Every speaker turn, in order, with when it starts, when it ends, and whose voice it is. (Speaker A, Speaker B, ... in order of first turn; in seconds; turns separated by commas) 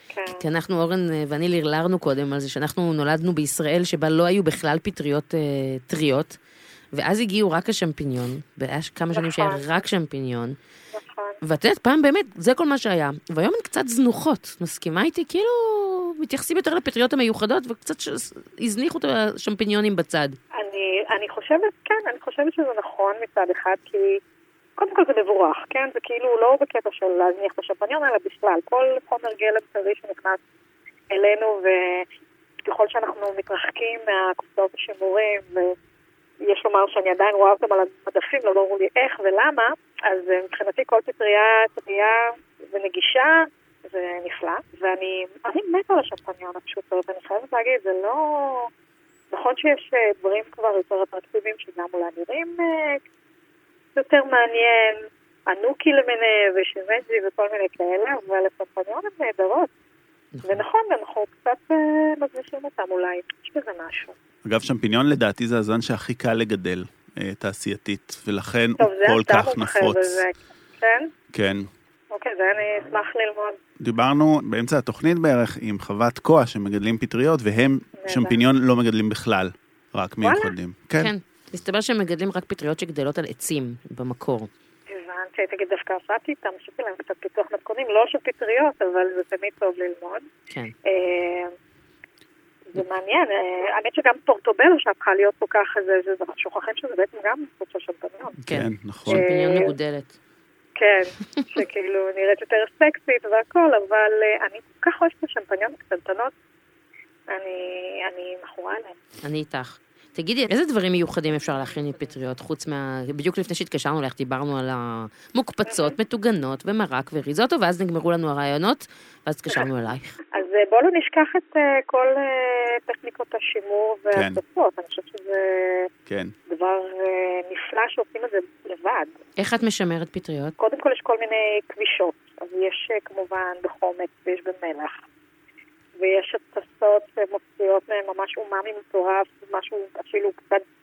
Speaker A: 0.1-0.4, Speaker B: 0.4-6.4, Speaker B: 6.9-10.6, Speaker A: 9.1-9.7, Speaker A: 10.9-11.4, Speaker B: 11.4-20.4, Speaker A: 20.6-24.2, Speaker A: 24.8-30.4, Speaker A: 31.1-32.0, Speaker A: 32.6-35.7, Speaker A: 36.5-48.7, Speaker A: 49.3-53.0, Speaker A: 54.0-59.7, Speaker B: 60.3-60.6, Speaker A: 60.4-64.1, Speaker C: 64.4-70.2, Speaker A: 68.8-71.1, Speaker C: 71.3-71.7, Speaker A: 72.1-73.6, Speaker C: 73.8-81.1, Speaker A: 78.0-78.4, Speaker A: 80.2-80.5, Speaker B: 81.0-84.5, Speaker A: 84.9-90.2, Speaker A: 90.8-91.5, Speaker A: 92.7-98.4, Speaker B: 98.5-100.1, Speaker C: 98.5-99.2, Speaker A: 99.1-99.7, Speaker A: 100.8-106.3, Speaker A: 107.3-108.9, Speaker B: 109.2-120.1, Speaker A: 115.7-115.9, Speaker A: 120.3-125.9, Speaker C: 124.1-124.4, Speaker C: 126.1-126.3, Speaker A: 126.5-129.1, Speaker B: 129.4-130.5, Speaker A: 130.6-135.0, Speaker A: 136.0-140.6